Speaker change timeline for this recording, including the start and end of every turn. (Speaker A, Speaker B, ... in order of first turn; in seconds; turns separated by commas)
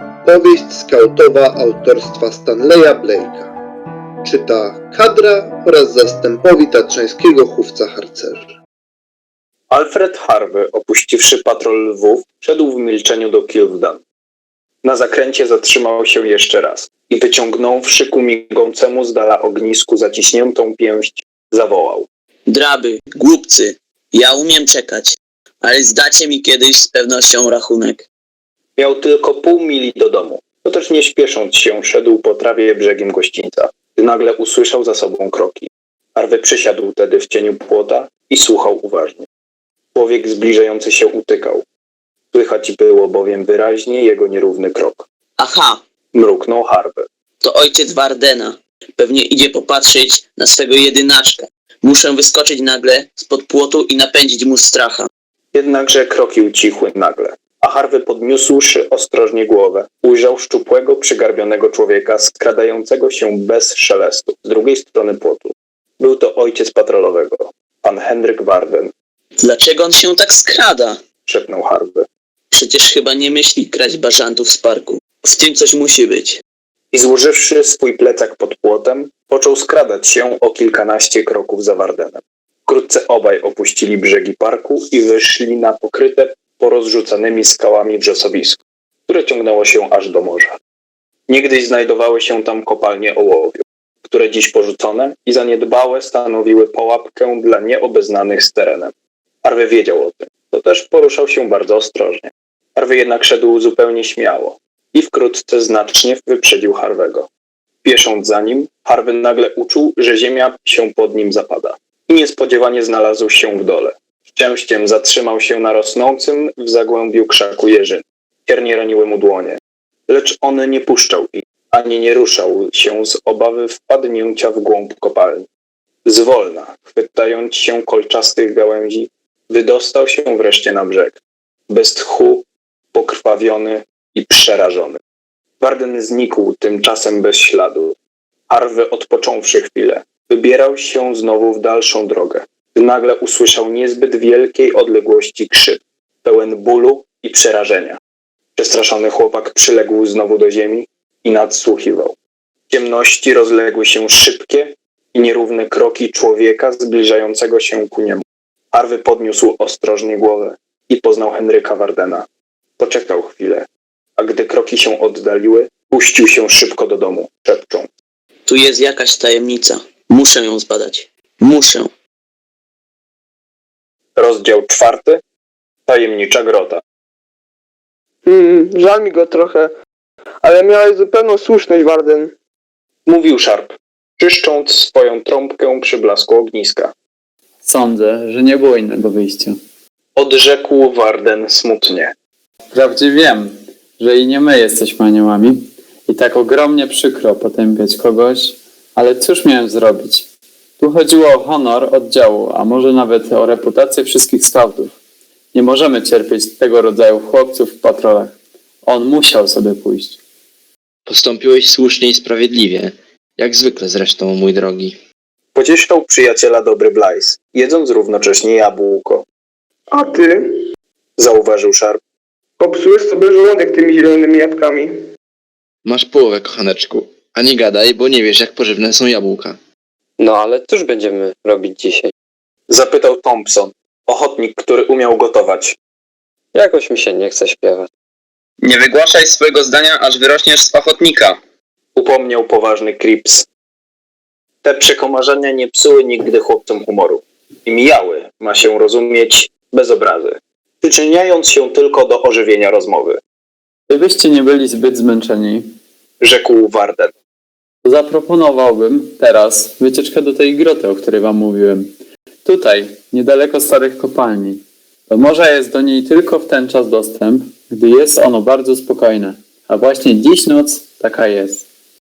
Speaker A: 0.2-3.5, Speaker A: 4.2-8.5, Speaker B: 9.7-14.0, Speaker B: 14.8-22.1, Speaker C: 22.5-28.1, Speaker B: 28.8-39.3, Speaker B: 40.0-41.6, Speaker B: 42.3-45.1, Speaker C: 45.4-45.8, Speaker B: 46.1-47.1, Speaker C: 47.4-55.1, Speaker B: 55.5-68.9, Speaker C: 69.4-71.0, Speaker B: 71.3-72.1, Speaker C: 72.5-76.4, Speaker B: 76.9-90.6, Speaker B: 91.3-98.9, Speaker B: 99.4-107.3, Speaker B: 107.8-125.5, Speaker B: 126.1-135.0, Speaker B: 135.6-137.9, Speaker B: 138.5-148.0, Speaker B: 148.6-152.2, Speaker B: 152.7-162.3, Speaker B: 162.8-163.7, Speaker B: 164.2-167.9, Speaker C: 168.5-171.9, Speaker B: 174.2-175.2, Speaker B: 175.9-176.8, Speaker D: 178.3-179.7, Speaker D: 180.4-182.3, Speaker B: 183.1-186.9, Speaker E: 187.6-189.6, Speaker B: 190.2-192.1, Speaker E: 192.7-200.3, Speaker E: 200.8-204.9, Speaker E: 205.5-210.2, Speaker F: 211.1-215.0, Speaker B: 215.6-219.2, Speaker D: 219.9-220.6, Speaker B: 221.2-222.0, Speaker D: 222.6-224.9, Speaker F: 225.8-229.6, Speaker G: 230.2-232.1, Speaker B: 232.7-235.8, Speaker G: 236.5-237.9, Speaker H: 238.6-241.4, Speaker B: 242.0-243.5, Speaker B: 244.6-253.2, Speaker E: 253.9-255.7, Speaker B: 256.2-257.1, Speaker E: 257.8-261.9, Speaker E: 262.4-271.7